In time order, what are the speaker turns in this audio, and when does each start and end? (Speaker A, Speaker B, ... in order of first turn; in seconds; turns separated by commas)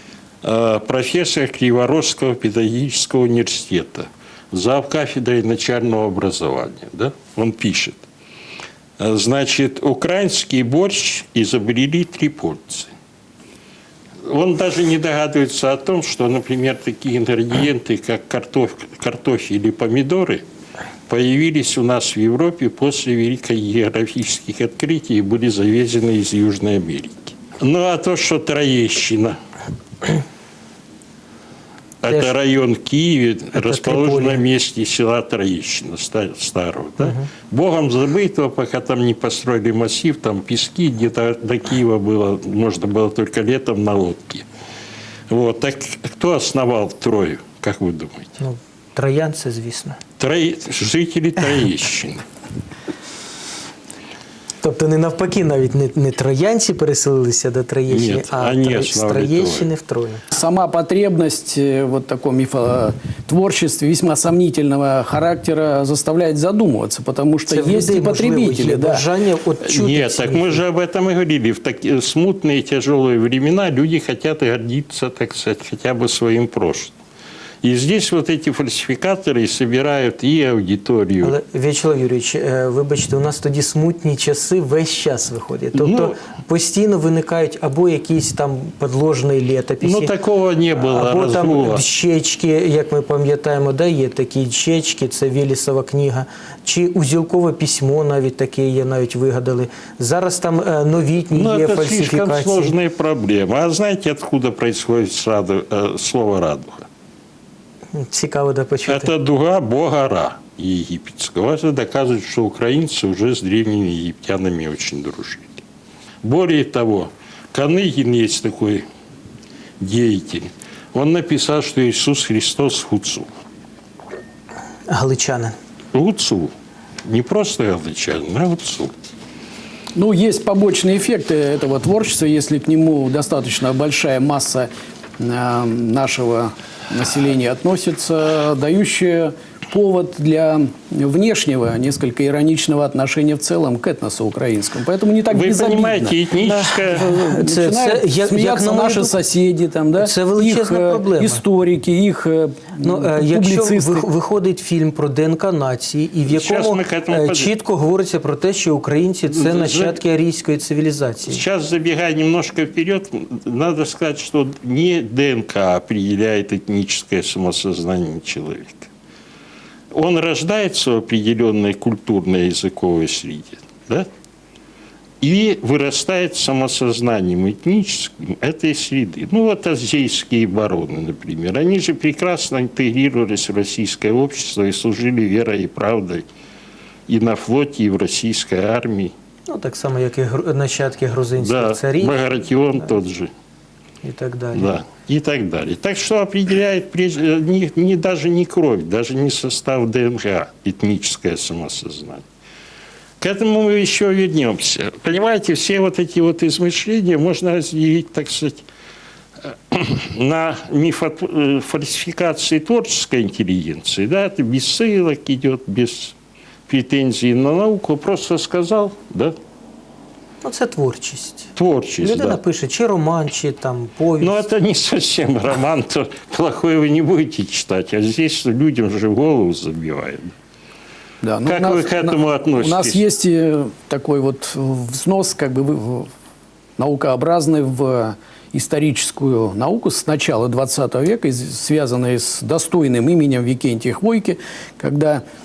Speaker A: 0.4-8.1, Speaker A: 9.0-12.9, Speaker A: 14.3-20.4, Speaker A: 21.1-29.4, Speaker A: 32.0-44.5, Speaker B: 33.5-34.4, Speaker A: 45.3-48.4, Speaker B: 48.4-50.0, Speaker A: 50.2-52.2, Speaker B: 54.6-60.2, Speaker A: 57.9-59.7, Speaker C: 60.3-69.0, Speaker B: 67.5-70.6, Speaker A: 69.6-76.9, Speaker A: 77.6-81.3, Speaker B: 81.2-90.1, Speaker A: 85.8-86.1, Speaker A: 89.8-91.8, Speaker B: 90.8-102.7, Speaker A: 101.3-106.9, Speaker B: 107.9-109.1, Speaker A: 108.9-115.6, Speaker A: 116.2-118.8, Speaker A: 119.8-123.3, Speaker B: 124.9-125.5, Speaker A: 125.9-126.5, Speaker A: 127.0-128.9, Speaker C: 129.9-146.2, Speaker A: 145.3-147.1, Speaker B: 146.4-149.1, Speaker C: 146.9-154.1, Speaker B: 150.0-151.4, Speaker B: 152.8-161.4, Speaker A: 156.2-157.5, Speaker A: 159.3-160.0, Speaker A: 161.3-168.9, Speaker A: 169.9-174.1, Speaker A: 175.2-186.3, Speaker A: 187.1-189.1, Speaker B: 189.5-192.2, Speaker A: 191.4-193.3, Speaker B: 194.0-194.8, Speaker A: 194.5-202.2, Speaker A: 203.2-208.7, Speaker A: 209.5-216.2, Speaker A: 216.7-219.3, Speaker B: 220.4-221.5, Speaker A: 221.6-222.4, Speaker B: 222.0-224.4, Speaker A: 224.2-230.3, Speaker C: 231.2-236.1, Speaker A: 231.5-233.0, Speaker C: 236.8-245.2